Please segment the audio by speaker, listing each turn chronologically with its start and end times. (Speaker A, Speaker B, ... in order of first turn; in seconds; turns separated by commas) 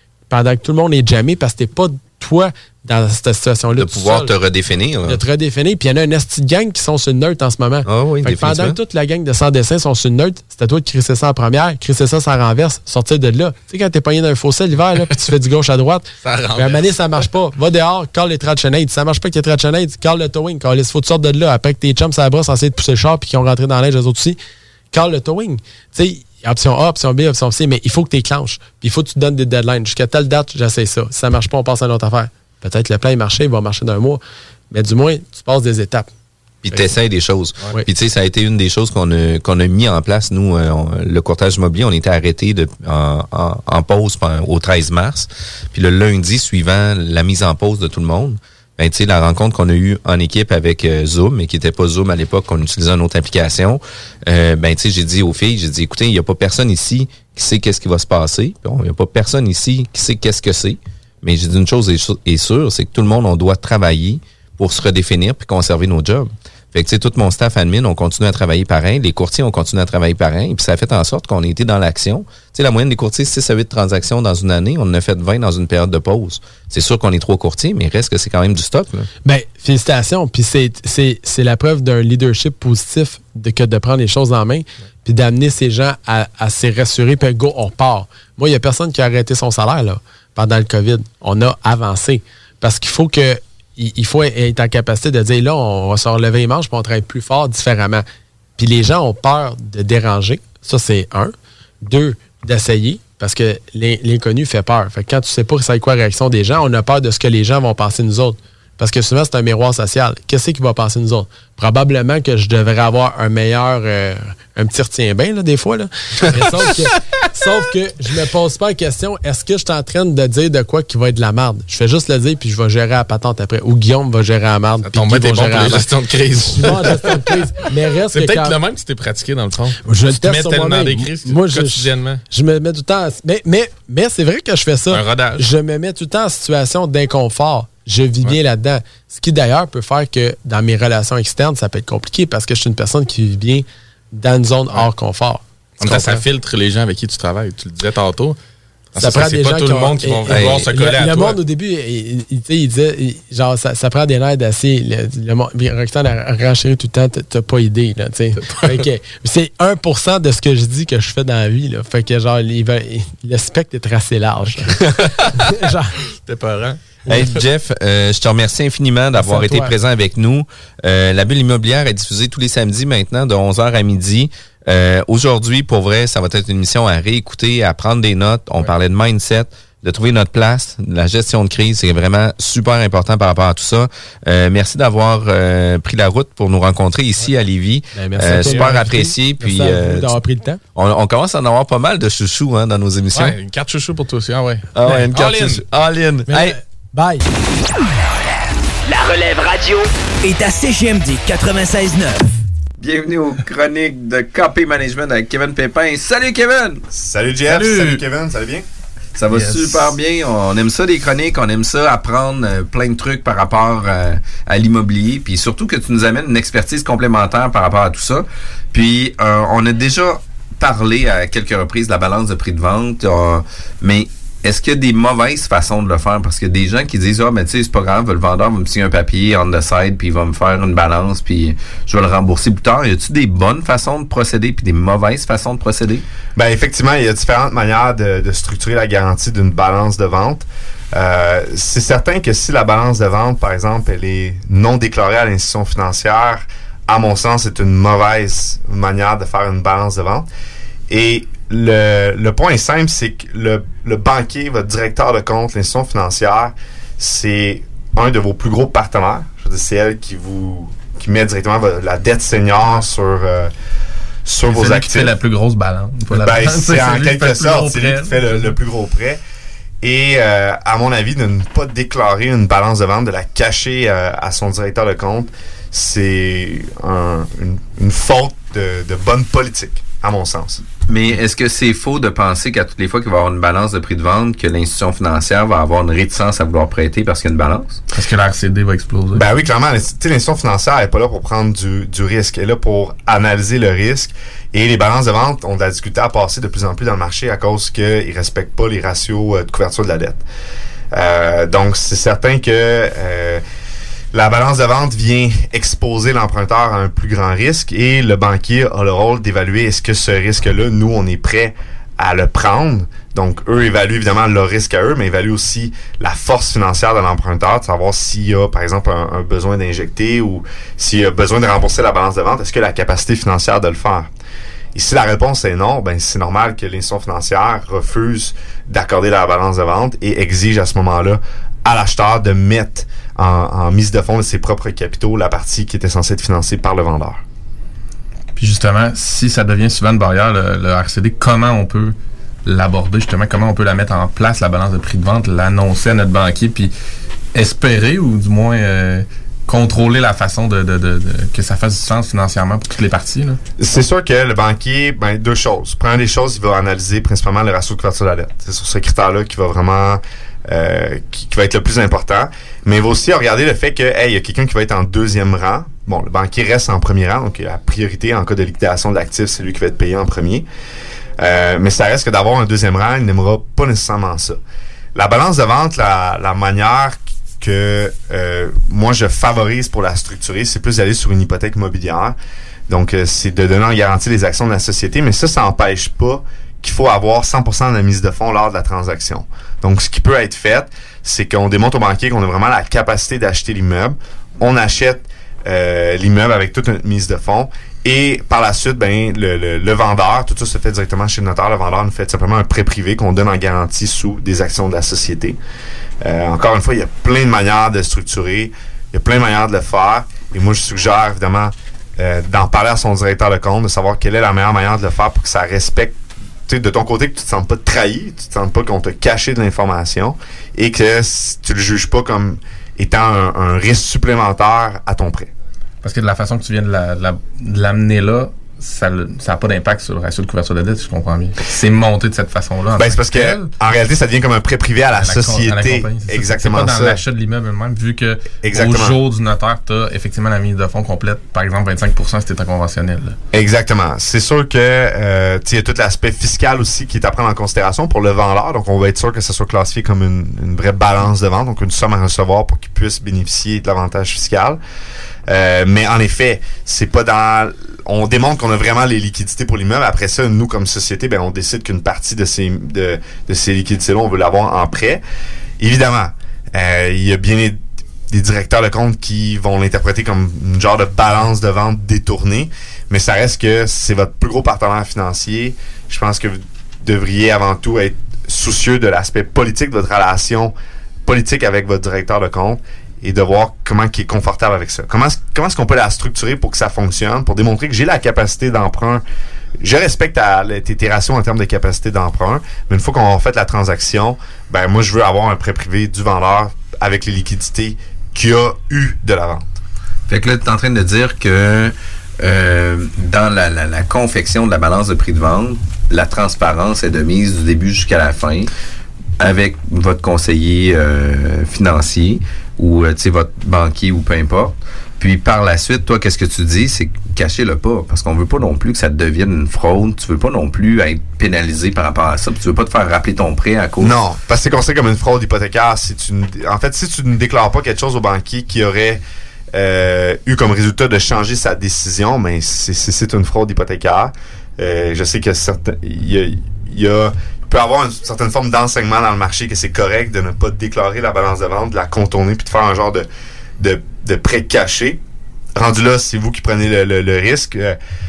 Speaker A: 0.3-4.3, Speaker B: 3.7-5.2, Speaker A: 5.0-24.4, Speaker B: 7.8-8.8, Speaker C: 16.2-16.8, Speaker A: 24.9-36.1, Speaker B: 36.6-79.1, Speaker A: 79.2-98.0, Speaker A: 98.6-125.8, Speaker C: 124.9-127.4, Speaker A: 126.5-128.6, Speaker C: 128.1-132.2, Speaker A: 129.8-146.2, Speaker C: 134.9-135.5, Speaker C: 145.8-148.4, Speaker C: 148.9-151.4, Speaker A: 149.0-164.8, Speaker B: 150.3-150.7, Speaker C: 158.4-158.8, Speaker B: 164.9-165.3, Speaker A: 165.3-165.9, Speaker C: 166.2-166.8, Speaker B: 167.1-190.2, Speaker A: 169.2-169.7, Speaker A: 187.9-190.6, Speaker C: 188.4-188.7, Speaker B: 190.7-193.4, Speaker C: 193.1-195.6, Speaker B: 194.7-196.6, Speaker A: 196.3-197.2, Speaker D: 198.9-202.4, Speaker B: 202.8-206.8, Speaker E: 206.9-208.6, Speaker C: 207.5-208.0, Speaker B: 209.1-236.0, Speaker C: 209.3-209.9, Speaker E: 236.3-250.2, Speaker E: 250.9-263.5, Speaker E: 264.2-265.1, Speaker C: 264.4-268.6, Speaker E: 266.1-269.2, Speaker E: 269.8-280.6, Speaker B: 280.9-287.8, Speaker C: 287.9-289.3, Speaker E: 289.1-300.2, Speaker E: 300.9-303.4, Speaker E: 304.1-324.1, Speaker E: 324.7-337.2, Speaker C: 338.4-346.7, Speaker C: 347.3-353.4, Speaker E: 353.6-370.4, Speaker E: 371.2-374.4, Speaker E: 374.9-382.1, Speaker E: 382.7-405.4, Speaker E: 406.0-416.0, Speaker E: 416.5-425.3, Speaker C: 425.8-433.5, Speaker E: 432.8-437.0, Speaker C: 435.0-443.2, Speaker E: 438.4-439.0, Speaker E: 443.3-454.6, Speaker E: 455.3-465.0, Speaker E: 465.6-480.5, Speaker E: 481.1-489.0, Speaker E: 489.6-499.5, Speaker B: 500.1-508.5, Speaker B: 509.2-524.0, Speaker E: 523.8-529.0, Speaker E: 529.5-543.0, Speaker E: 543.6-545.0, Speaker E: 545.5-547.8